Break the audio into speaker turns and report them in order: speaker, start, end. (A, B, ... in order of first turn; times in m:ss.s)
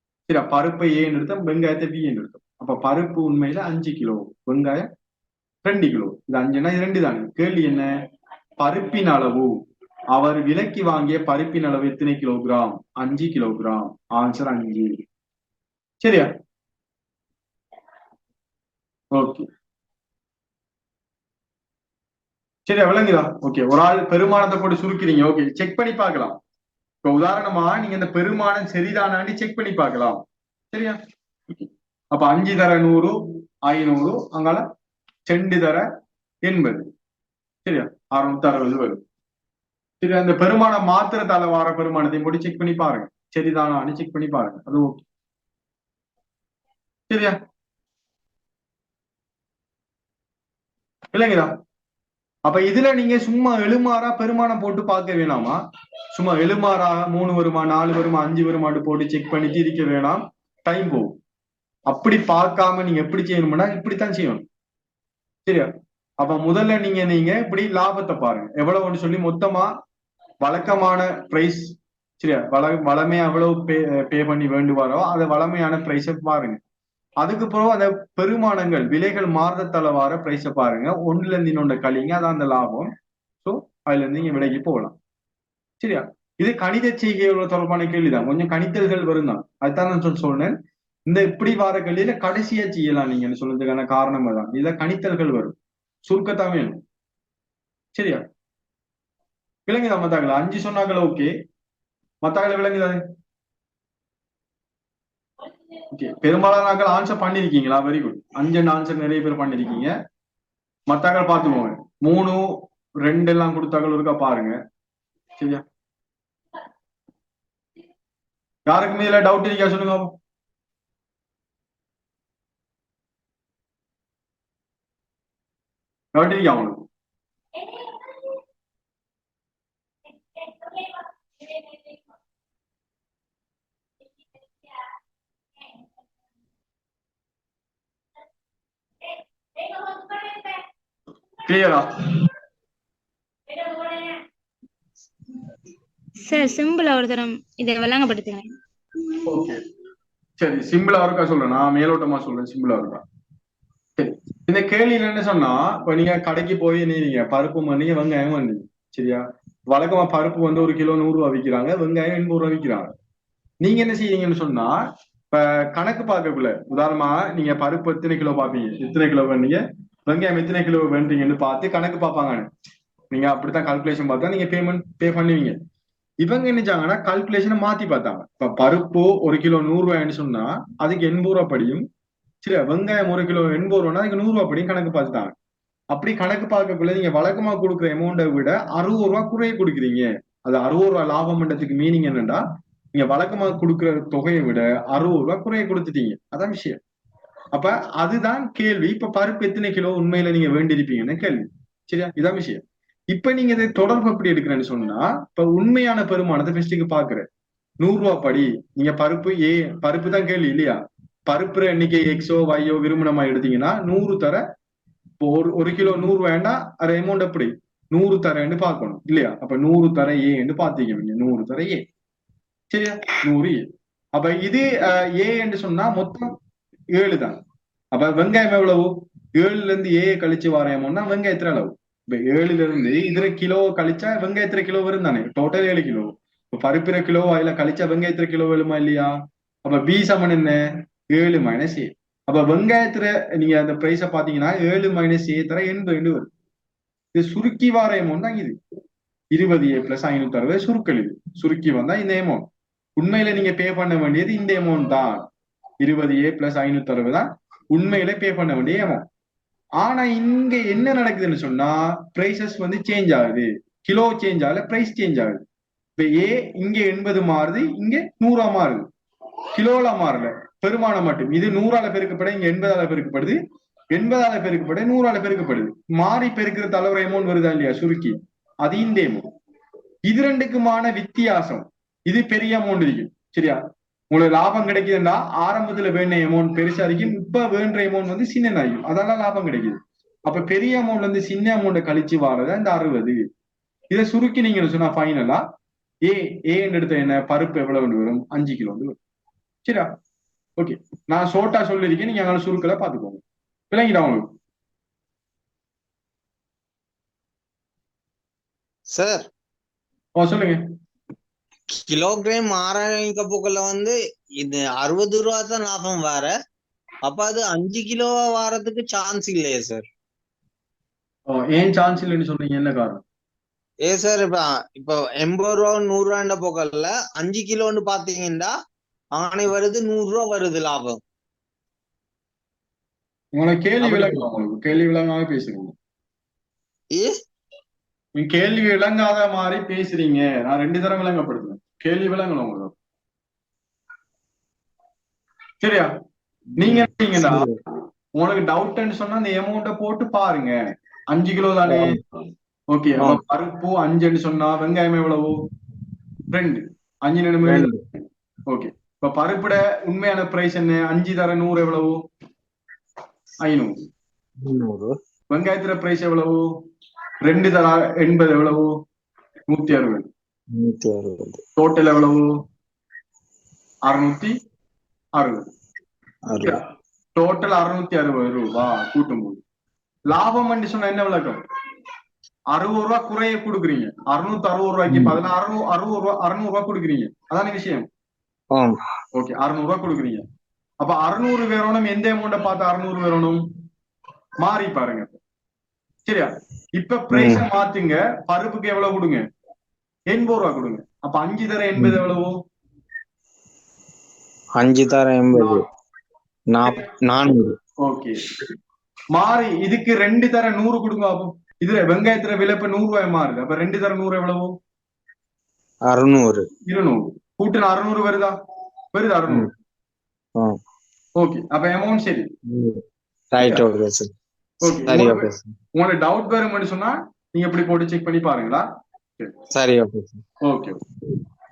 0:00.3-0:04.8 A
0:05.6-0:07.9 A
0:08.6-0:09.6 A
0:10.1-0:14.9 A
0:16.0-0:16.3 A
0:19.1-0:19.5 A
0:22.7-0:26.4 A
0:27.0-0:31.0 A
0:31.5-0:34.6 A
0:35.3-0:35.8 A
0:36.4-0:36.9 A
0:37.6-0:39.0 A
0:40.0-0:45.0 A
0:47.1-0:47.4 A
0:51.1-0:51.5 A
0:52.4-0:55.6 A
0:56.1-1:01.1 A
1:01.9-1:04.4 A
1:06.2-1:09.7 A
1:10.4-1:16.6 A
1:17.2-1:22.9 A
1:23.4-1:25.0 A
1:25.8-1:30.5 A
1:31.1-1:36.8 A
1:37.9-1:38.2 A
1:39.7-1:41.3 A
1:42.2-1:43.0 A
1:45.9-1:49.9 A
1:50.9-1:54.6 A
1:55.4-1:55.6 A
1:58.7-2:00.1 A
2:06.1-2:06.8 A
2:07.7-2:08.3 B
2:10.3-2:11.9 B
2:19.6-2:20.6 B
2:21.4-2:22.2 A
2:23.5-2:24.2 B
2:26.2-2:28.5 B
2:29.2-2:29.6 A
2:30.4-2:33.0 A
2:34.0-2:42.9 A
2:43.6-2:52.5 A
2:53.1-2:55.6 A
2:56.2-3:01.8 A
3:02.4-3:05.3 A
3:05.9-3:12.4 A
3:12.9-3:16.8 A
3:17.5-3:27.2 A
3:27.8-3:34.4 A
3:35.2-3:41.8 A
3:42.7-3:46.4 A
3:46.9-3:47.4 A
3:47.9-3:59.1 A
3:59.6-4:06.3 A
4:07.1-4:08.6 A
4:09.3-4:15.2 A
4:15.8-4:19.0 A
4:19.8-4:25.4 A
4:26.0-4:28.8 A
4:29.5-4:33.4 A
4:33.9-4:39.3 A
4:40.0-4:43.6 A
4:44.1-4:53.2 A
4:53.9-4:55.4 A
4:56.0-4:59.0 A
5:00.6-5:04.3 A
5:08.9-5:09.3 C
5:10.2-5:10.6 A
5:11.7-5:16.3 C
5:17.0-5:19.8 C
5:21.3-5:23.0 A
5:23.8-5:28.5 C
5:29.1-5:31.0 C
5:33.3-5:35.7 A
5:33.8-5:34.4 C
5:38.1-5:42.7 A
5:45.6-5:45.9 A
5:46.6-5:47.5 A
5:46.6-5:47.5 C
5:48.2-5:50.6 A
5:51.1-5:52.0 A
5:51.7-5:52.0 C
5:52.7-5:55.3 A
5:56.3-5:57.7 A
5:57.4-5:57.8 C
5:58.5-6:02.0 A
6:03.4-6:03.9 A
6:04.4-6:04.9 C
6:05.3-6:06.4 A
6:07.2-6:08.7 A
6:09.5-6:10.1 A
6:10.6-6:11.4 C
6:11.6-6:12.3 A
6:13.9-6:14.3 A
6:15.2-6:15.4 A
6:16.3-6:16.6 C
6:17.1-6:19.4 A
6:20.1-6:21.4 A
6:22.5-6:27.8 A
6:24.9-6:25.2 C
6:29.1-6:30.2 A
6:30.8-6:33.4 A
6:34.4-6:35.2 A
6:36.0-6:39.2 A
6:37.1-6:37.4 C
6:40.1-6:42.3 A
6:44.6-6:45.6 C
6:45.3-6:45.6 A
6:46.5-6:47.6 C
6:47.8-6:48.2 A
6:49.1-6:54.5 A
6:55.9-6:56.5 C
6:56.7-6:58.3 A
6:58.9-6:59.5 A
7:01.2-7:02.3 A
7:02.5-7:04.1 C
7:04.6-7:08.6 A
7:04.6-7:05.5 C
7:09.5-7:10.2 C
7:10.4-7:10.8 A